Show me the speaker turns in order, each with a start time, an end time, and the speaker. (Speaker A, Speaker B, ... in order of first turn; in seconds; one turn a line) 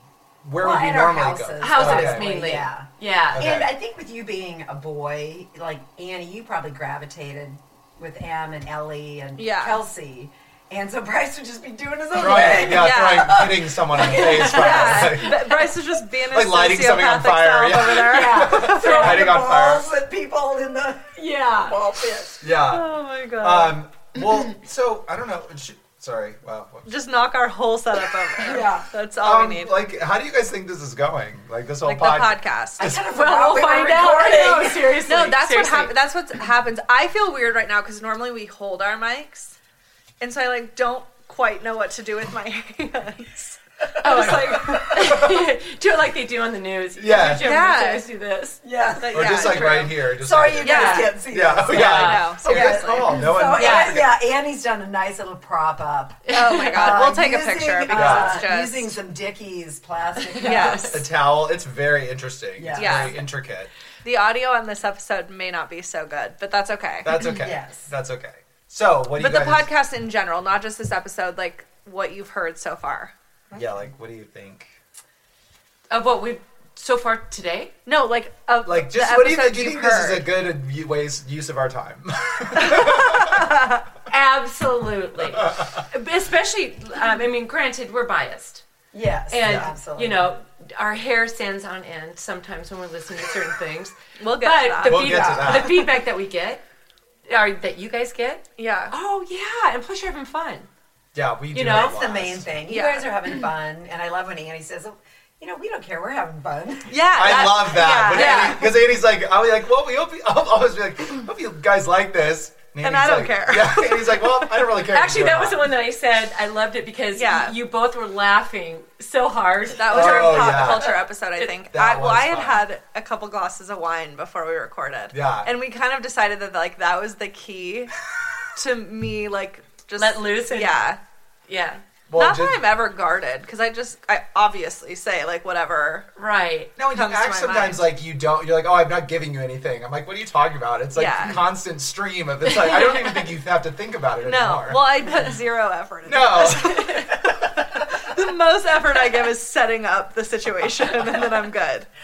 Speaker A: 0.4-2.6
Speaker B: 0.6-15.3
Speaker C: 1.6-3.5
Speaker A: 3.3-3.7
Speaker D: 9.4-9.8
Speaker A: 12.1-15.5
Speaker D: 12.2-13.5
Speaker D: 14.1-19.0
Speaker C: 14.1-15.2
Speaker A: 16.3-19.9
Speaker C: 18.1-19.3
Speaker B: 18.5-22.4
Speaker C: 21.1-21.8
Speaker A: 22.4-26.9
Speaker D: 22.6-23.8
Speaker D: 26.9-29.8
Speaker B: 28.4-28.9
Speaker A: 29.2-33.0
Speaker D: 31.8-32.8
Speaker B: 32.8-35.0
Speaker C: 32.9-35.9
Speaker D: 35.1-39.5
Speaker D: 40.2-43.6
Speaker C: 44.0-48.6
Speaker A: 44.1-45.5
Speaker D: 44.1-44.8
Speaker A: 46.9-47.6
Speaker D: 47.3-48.1
Speaker B: 48.6-61.0
Speaker D: 49.0-49.9
Speaker A: 49.1-54.2
Speaker C: 49.2-49.9
Speaker D: 50.6-53.1
Speaker C: 50.7-51.1
Speaker C: 51.7-52.3
Speaker C: 53.5-54.0
Speaker C: 56.2-57.1
Speaker D: 56.3-59.0
Speaker A: 57.9-58.5
Speaker C: 60.3-60.9
Speaker D: 60.4-61.0
Speaker A: 60.9-63.7
Speaker B: 62.6-63.1
Speaker D: 62.7-63.2
Speaker D: 64.0-67.2
Speaker A: 67.0-69.7
Speaker B: 67.2-67.9
Speaker D: 69.2-73.1
Speaker A: 73.5-74.7
Speaker C: 75.9-77.7
Speaker D: 77.8-80.2
Speaker A: 78.6-83.5
Speaker D: 82.6-83.8
Speaker C: 84.1-88.6
Speaker B: 88.9-90.3
Speaker C: 89.3-96.6
Speaker A: 89.4-89.7
Speaker D: 94.2-95.6
Speaker A: 94.8-95.9
Speaker B: 95.0-95.8
Speaker C: 97.3-100.7
Speaker D: 98.6-98.9
Speaker A: 101.1-102.5
Speaker C: 101.5-102.0
Speaker B: 101.6-107.4
Speaker D: 102.7-103.1
Speaker D: 106.9-108.8
Speaker A: 107.1-115.7
Speaker C: 108.1-108.6
Speaker D: 112.8-114.5
Speaker C: 114.9-120.8
Speaker D: 117.1-117.5
Speaker D: 119.8-127.9
Speaker A: 119.9-121.0
Speaker A: 121.7-122.6
Speaker A: 125.1-125.5
Speaker D: 128.5-131.0
Speaker C: 130.0-130.8
Speaker C: 131.5-131.8
Speaker A: 132.1-132.6
Speaker D: 132.2-136.1
Speaker C: 136.2-136.7
Speaker A: 136.8-145.1
Speaker D: 136.9-137.9
Speaker D: 140.9-141.4
Speaker D: 144.2-151.9
Speaker A: 146.0-147.0
Speaker C: 146.6-147.1